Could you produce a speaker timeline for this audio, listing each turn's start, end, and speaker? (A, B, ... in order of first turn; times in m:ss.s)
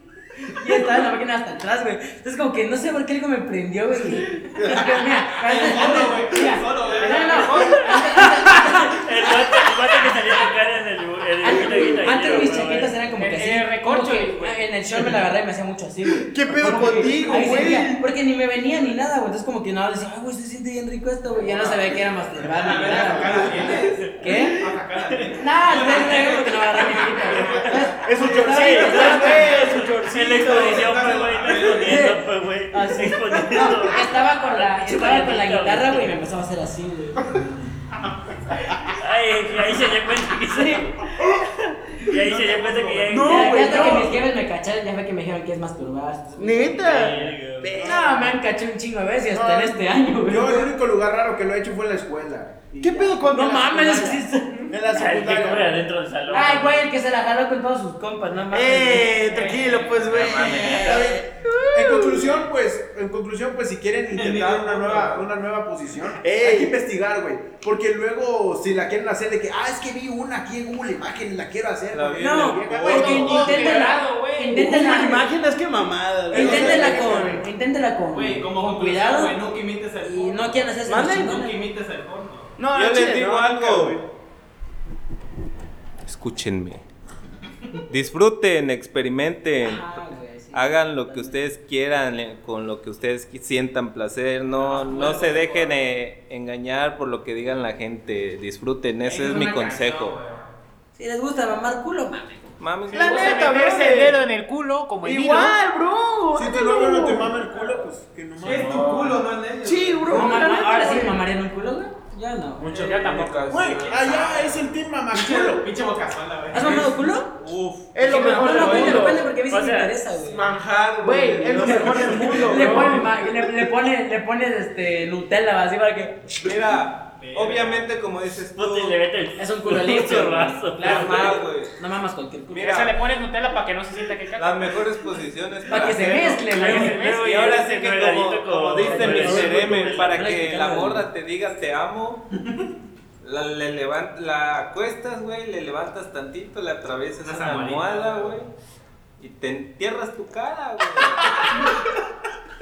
0:00.4-0:09.1 A
0:05.4-0:07.7 B
0:06.5-0:08.0 C
0:07.6-0:12.9 D
0:11.4-0:24.6 A
0:13.1-0:14.6 C
0:16.1-0:18.0 E
0:21.4-0:27.8 B
0:23.2-0:23.6 E
0:25.4-0:29.4 A
0:27.6-0:31.3 E
0:28.1-0:29.1 F
0:28.5-0:36.2 D
0:30.8-0:31.8 G
0:31.0-0:32.0 B
0:31.7-0:37.7 A
0:38.6-0:44.2 D
0:40.5-0:40.9 A
0:42.2-0:43.0 G
0:43.0-0:44.2 E
0:43.2-0:50.7 A
0:46.4-0:48.4 E
0:46.8-0:47.9 D
0:49.3-0:53.5 F
0:52.8-0:54.3 E
0:53.3-0:54.7 A
0:54.7-0:55.8 F
0:54.9-0:56.9 D
0:56.3-0:59.5 A
0:58.5-1:02.3 E
0:59.3-1:00.7 B
1:00.0-1:01.2 D
1:00.8-1:12.8 F
1:04.1-1:05.2 B
1:06.0-1:06.8 E
1:11.9-1:13.2 H
1:12.2-1:15.3 A
1:12.4-1:13.9 E
1:12.8-1:15.0 C
1:14.5-1:17.4 E
1:16.3-1:17.4 F
1:16.3-1:19.4 A
1:18.1-1:22.5 B
1:20.0-1:21.7 A
1:20.8-1:21.4 E
1:22.6-1:23.7 E
1:22.7-1:24.0 H
1:26.0-1:26.8 H
1:27.9-1:29.9 H
1:29.6-1:31.4 A
1:30.5-1:40.2 H
1:34.6-1:35.8 B
1:39.0-1:40.5 B
1:41.0-1:42.4 A
1:42.6-1:43.6 H
1:42.9-1:45.6 C
1:42.9-1:44.2 E
1:45.0-1:47.7 E
1:46.3-1:49.1 F
1:48.4-1:50.4 B
1:48.4-1:49.2 G
1:49.6-1:51.2 E
1:50.1-1:52.8 A
1:52.6-1:53.9 G
1:52.7-1:54.1 H
1:52.8-1:53.6 C
1:53.5-1:55.7 F
1:53.6-1:57.1 B
1:56.5-1:57.3 A
1:57.4-1:58.2 H
1:57.9-1:59.3 E
1:58.0-2:00.5 A
1:58.2-1:59.0 B
1:59.3-1:59.9 D
2:00.2-2:03.1 G
2:01.0-2:03.1 E
2:01.6-2:06.2 A
2:06.4-2:09.0 H
2:07.2-2:07.9 B
2:08.5-2:11.4 D
2:09.4-2:12.8 A
2:10.8-2:11.7 H
2:12.5-2:13.0 H
2:12.6-2:14.9 C
2:14.4-2:22.2 H
2:15.7-2:17.1 A
2:15.8-2:17.6 C
2:16.5-2:20.4 D
2:18.8-2:21.1 A
2:23.2-2:28.5 H
2:27.2-2:28.5 B
2:29.2-2:31.7 H